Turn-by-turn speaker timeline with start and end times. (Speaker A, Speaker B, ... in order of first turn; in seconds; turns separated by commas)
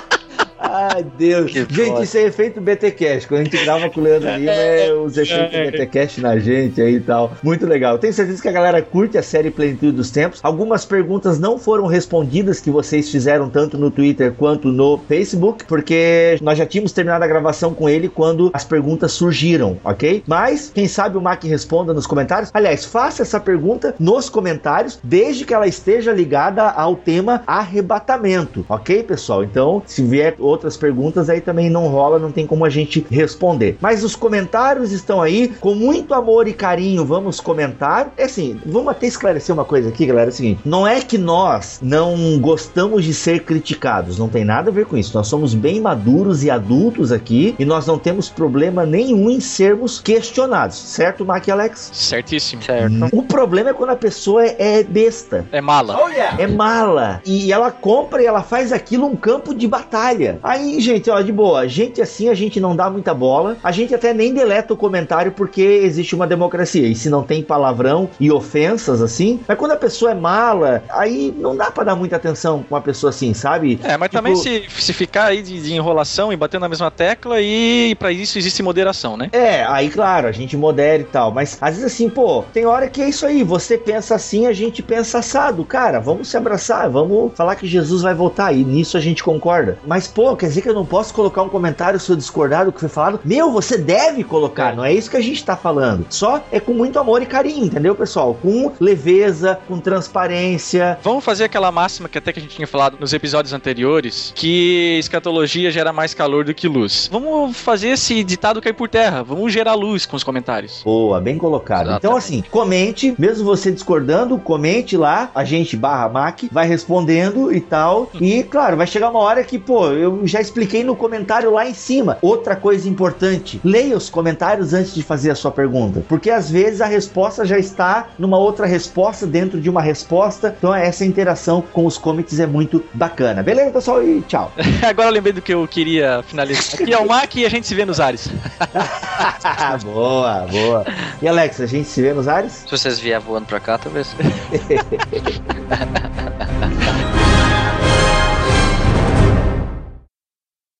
Speaker A: 0.6-51.9, Speaker B: 1.5-2.1, Speaker C: 4.5-5.8, Speaker C: 51.9-52.7, Speaker B: 52.6-53.1, Speaker A: 52.8-74.5, Speaker C: 55.5-56.3, Speaker C: 73.8-79.3, Speaker A: 79.3-101.0, Speaker C: 101.0-110.8, Speaker A: 110.8-134.5, Speaker B: 111.8-112.4, Speaker C: 134.7-138.9, Speaker A: 138.8-142.7, Speaker B: 142.7-144.2, Speaker A: 144.5-145.2, Speaker B: 145.7-146.5